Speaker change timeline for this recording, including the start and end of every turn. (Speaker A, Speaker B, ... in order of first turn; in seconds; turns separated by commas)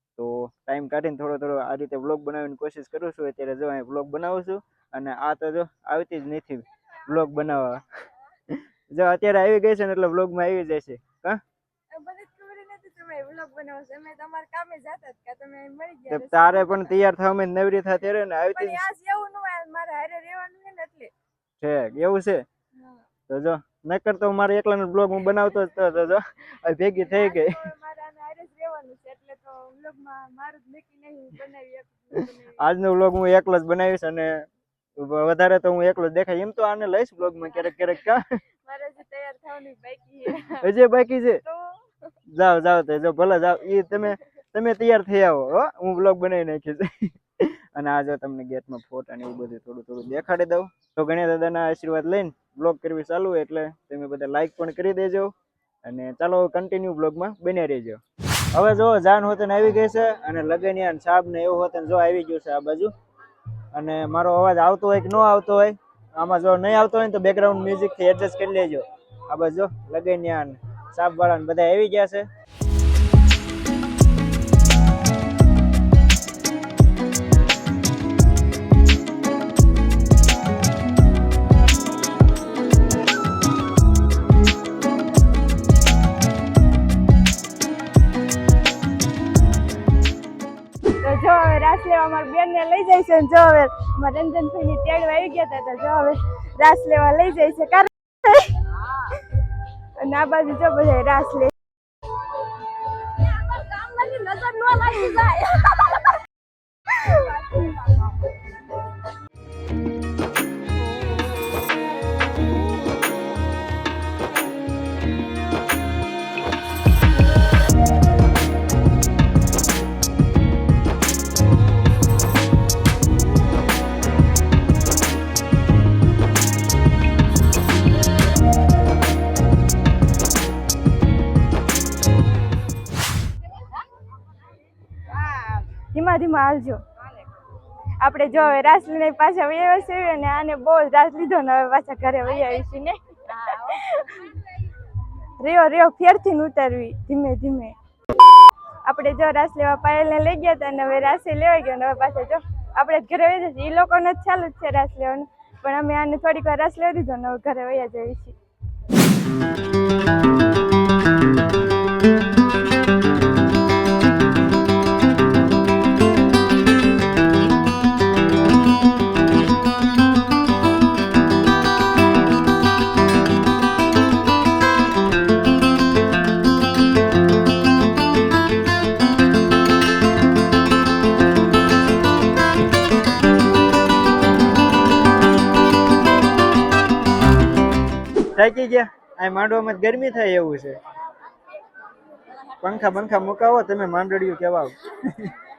Speaker A: 0.1-7.8, Speaker A: 8.5-11.4, Speaker B: 11.9-16.9, Speaker A: 16.1-18.9, Speaker B: 18.5-21.1, Speaker A: 21.6-22.4, Speaker A: 23.3-27.6, Speaker B: 27.0-32.6, Speaker A: 32.5-34.5, Speaker A: 35.0-38.2, Speaker B: 37.5-38.1, Speaker B: 38.6-40.7, Speaker A: 40.6-41.4, Speaker A: 42.3-55.3, Speaker A: 55.8-58.0, Speaker A: 58.5-62.9, Speaker A: 63.7-72.2, Speaker B: 91.0-101.5, Speaker B: 102.8-106.1, Speaker B: 106.9-108.2, Speaker B: 135.3-136.8, Speaker B: 138.0-144.6, Speaker B: 145.2-147.8, Speaker B: 148.8-158.3, Speaker A: 188.3-190.8, Speaker A: 192.6-195.3